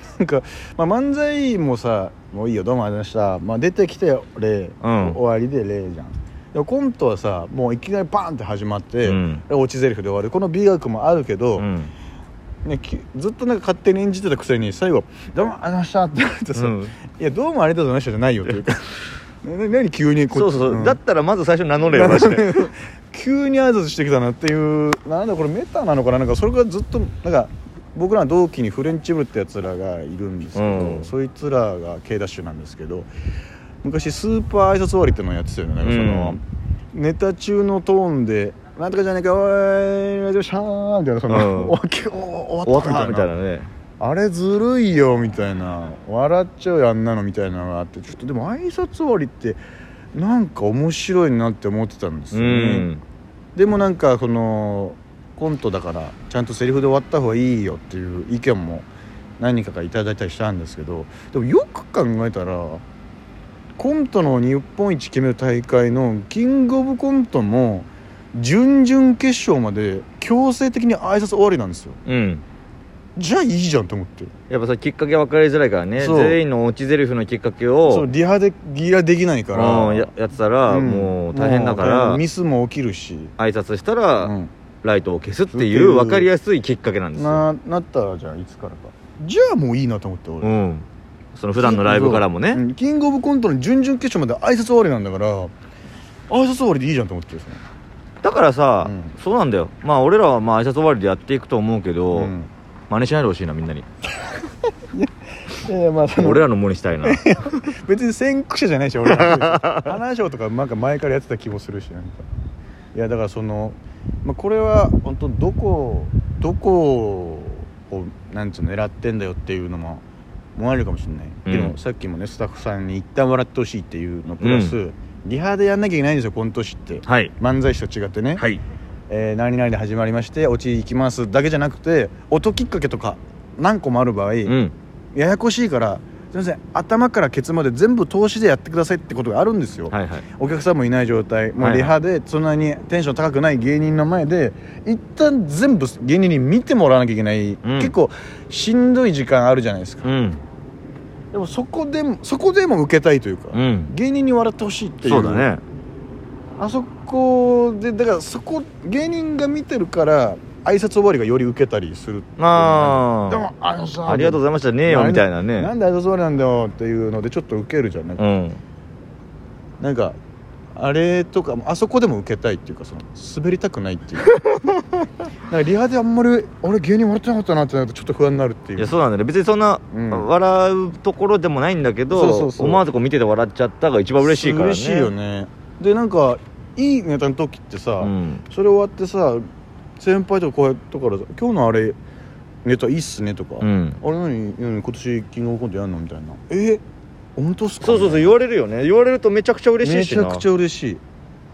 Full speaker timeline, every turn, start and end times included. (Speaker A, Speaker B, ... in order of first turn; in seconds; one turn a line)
Speaker A: 0.2-11.7
Speaker B: 4.8-5.2
Speaker B: 9.0-9.4
Speaker B: 11.6-11.9
Speaker A: 12.6-21.0
Speaker B: 16.5-16.9
Speaker B: 20.3-22.7
Speaker A: 21.8-33.1
Speaker B: 30.5-31.1
Speaker A: 33.8-36.4
Speaker B: 35.8-36.4
Speaker A: 36.9-43.3
Speaker B: 41.3-41.7
Speaker B: 42.6-43.7
Speaker A: 44.0-49.6
Speaker A: 50.1-52.9
Speaker B: 52.3-53.0
Speaker A: 53.5-58.9
Speaker A: 59.4-62.8
Speaker A: 63.8-72.0
Speaker B: 72.0-72.4
Speaker A: 73.2-74.3
Speaker B: 74.5-78.1
Speaker A: 76.0-76.4
Speaker A: 77.8-80.1
Speaker B: 79.5-82.2
Speaker A: 80.7-83.3
Speaker B: 83.4-87.4
Speaker A: 84.2-84.5
Speaker A: 85.5-86.3
Speaker A: 87.2-90.5
Speaker B: 90.4-92.6
Speaker A: 91.6-95.5
Speaker A: 96.3-97.6
Speaker B: 98.2-102.3
Speaker A: 98.8-99.1
Speaker A: 102.1-102.5
Speaker B: 102.9-103.8
Speaker A: 104.9-106.4
Speaker B: 106.2-107.2
Speaker A: 107.0-112.2
Speaker B: 109.1-109.9
Speaker A: 112.9-120.0
Speaker A: 120.5-128.4
Speaker B: 121.5-121.8
Speaker B: 124.4-124.8
Speaker B: 127.1-127.3
Speaker B: 128.3-128.6
Speaker A: 129.1-134.6
Speaker B: 134.4-134.7
Speaker A: 135.1-150.1
Speaker B: 139.9-140.2
Speaker B: 141.6-141.9
Speaker B: 147.6-147.9
Speaker B: 150.0-150.4
Speaker A: 151.3-155.5
Speaker B: 153.5-153.9
Speaker B: 155.0-155.6
Speaker A: 156.6-168.2
Speaker B: 162.4-163.4
Speaker B: 164.1-165.7
Speaker B: 168.2-168.6
Speaker A: 169.8-170.2
Speaker A: 170.8-174.3
Speaker B: 174.3-174.8
Speaker A: 175.5-179.0
Speaker B: 178.8-185.1
Speaker A: 179.9-180.3
Speaker A: 182.1-182.8
Speaker A: 184.2-189.4
Speaker B: 188.0-188.4
Speaker A: 190.0-192.0
Speaker A: 192.6-196.8
Speaker B: 193.6-194.0
Speaker A: 197.4-198.3
Speaker B: 197.8-200.4
Speaker A: 199.8-201.0